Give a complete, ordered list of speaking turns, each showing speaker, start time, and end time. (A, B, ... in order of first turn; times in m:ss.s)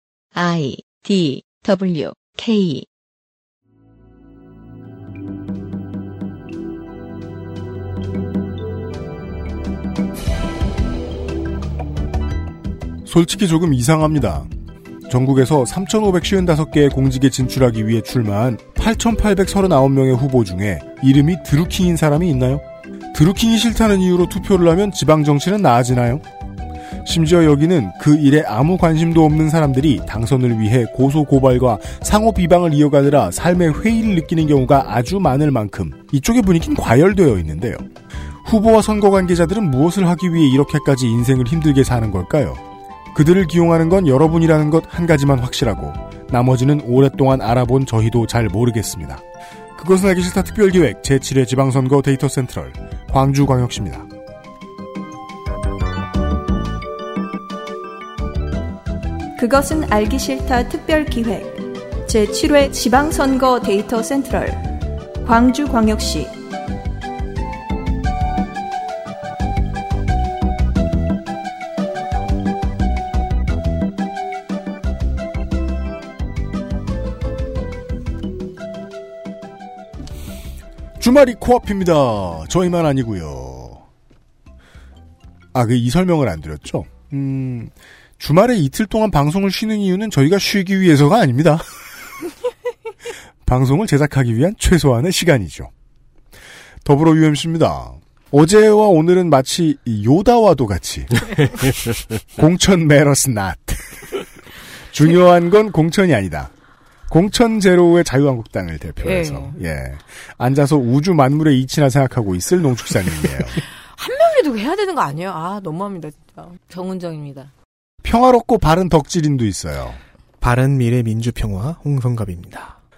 0:00.3-0:02.8 A
0:13.0-0:14.5 B
0:15.1-0:26.2 B
0:27.0-0:37.9 B
0:38.4-0:42.6 B
0:43.1-0:49.2 B
0:49.8-0:54.1 B
0:59.4-1:04.6 C
1:05.2-1:06.4 C
1:21.0-1:23.8 B
1:25.5-1:31.7 B
1:33.4-1:35.7 B
1:36.8-1:44.2 B
1:44.9-1:46.5 B
1:47.1-1:53.6 B
1:49.0-1:49.6 D
1:53.9-1:57.5 D
1:58.0-2:00.0 B
2:00.4-2:02.8 E